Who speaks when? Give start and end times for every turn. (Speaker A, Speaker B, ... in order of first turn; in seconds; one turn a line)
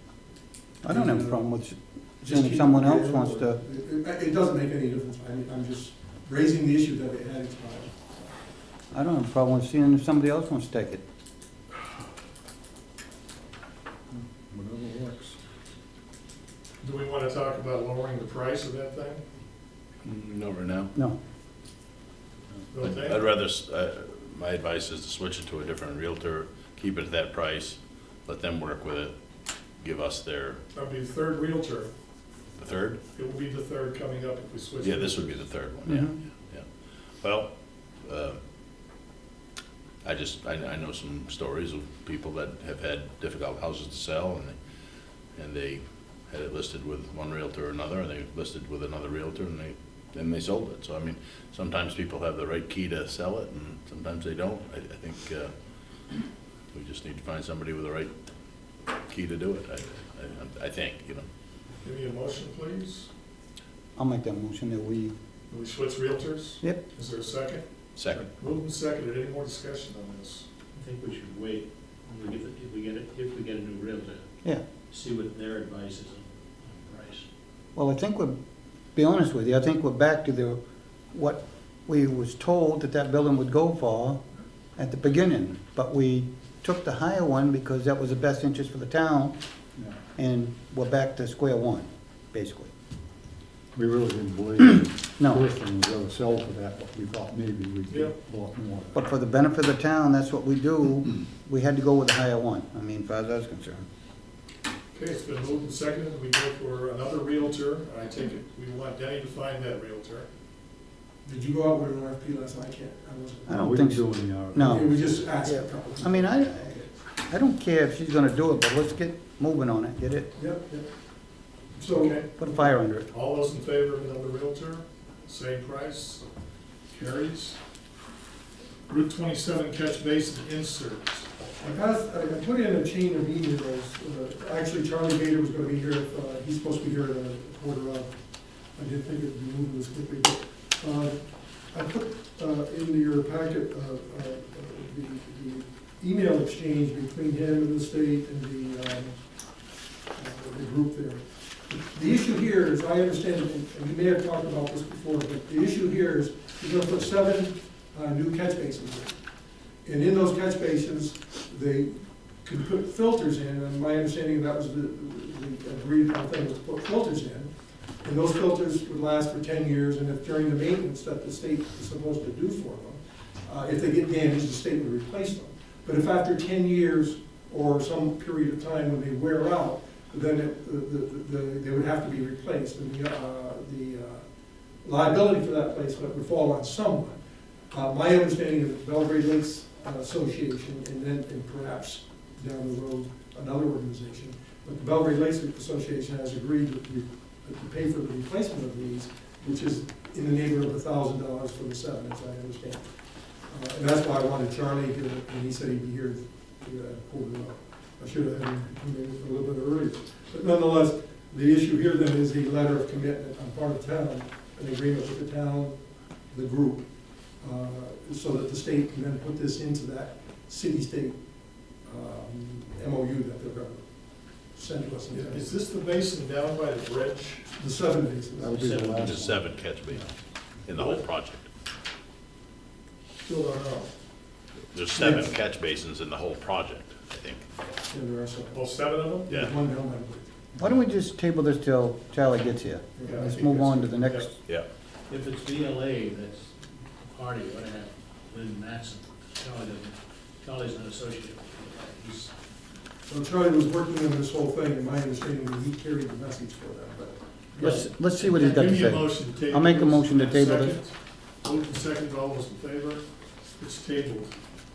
Speaker A: 0.8-3.6
Speaker B: 0.9-1.4
Speaker B: 2.2-8.2
Speaker A: 8.9-11.0
Speaker C: 14.1-15.4
Speaker D: 16.8-19.2
Speaker E: 20.0-20.9
Speaker D: 22.7-23.2
Speaker E: 22.8-29.1
Speaker E: 29.8-30.6
Speaker D: 30.7-31.9
Speaker E: 32.6-33.0
Speaker D: 33.1-35.5
Speaker E: 34.8-38.4
Speaker A: 35.9-36.2
Speaker E: 40.0-44.6
Speaker E: 45.3-55.5
Speaker E: 56.7-58.1
Speaker E: 59.0-61.3
Speaker D: 61.8-63.1
Speaker A: 64.0-65.1
Speaker D: 65.5-67.6
Speaker E: 68.0-68.3
Speaker D: 68.3-70.5
Speaker F: 70.8-74.2
Speaker F: 74.9-77.3
Speaker A: 77.8-78.4
Speaker A: 79.0-80.6
Speaker A: 81.1-84.2
Speaker A: 84.8-89.4
Speaker A: 90.2-92.7
Speaker C: 93.8-99.0
Speaker A: 95.2-95.4
Speaker D: 97.9-98.1
Speaker A: 98.9-103.9
Speaker D: 104.9-110.3
Speaker B: 111.2-113.8
Speaker A: 113.5-120.4
Speaker C: 113.5-115.0
Speaker B: 114.5-116.9
Speaker B: 120.4-120.8
Speaker B: 121.7-122.7
Speaker D: 121.9-122.4
Speaker A: 122.4-123.1
Speaker D: 123.1-126.2
Speaker D: 126.9-127.6
Speaker D: 128.9-131.3
Speaker B: 131.6-138.1
Speaker B: 138.8-149.2
Speaker B: 150.2-159.2
Speaker B: 159.8-167.5
Speaker B: 168.0-184.2
Speaker B: 184.8-187.2
Speaker B: 187.7-202.8
Speaker B: 203.5-215.8
Speaker B: 216.3-216.9
Speaker B: 217.4-221.2
Speaker B: 221.8-223.9
Speaker B: 224.5-225.5
Speaker D: 225.1-227.6
Speaker B: 227.6-228.9
Speaker C: 228.4-229.5
Speaker F: 228.5-229.1
Speaker E: 228.7-231.5
Speaker D: 233.2-233.9
Speaker E: 234.7-237.5
Speaker D: 234.9-235.3
Speaker B: 237.9-238.6
Speaker D: 238.5-239.3
Speaker B: 239.2-240.3
Speaker A: 240.6-244.3
Speaker B: 243.0-243.3
Speaker D: 243.0-244.3
Speaker F: 245.1-252.3
Speaker B: 253.1-257.8
Speaker A: 257.6-260.8
Speaker F: 257.6-258.4
Speaker D: 258.3-263.0
Speaker D: 263.6-264.3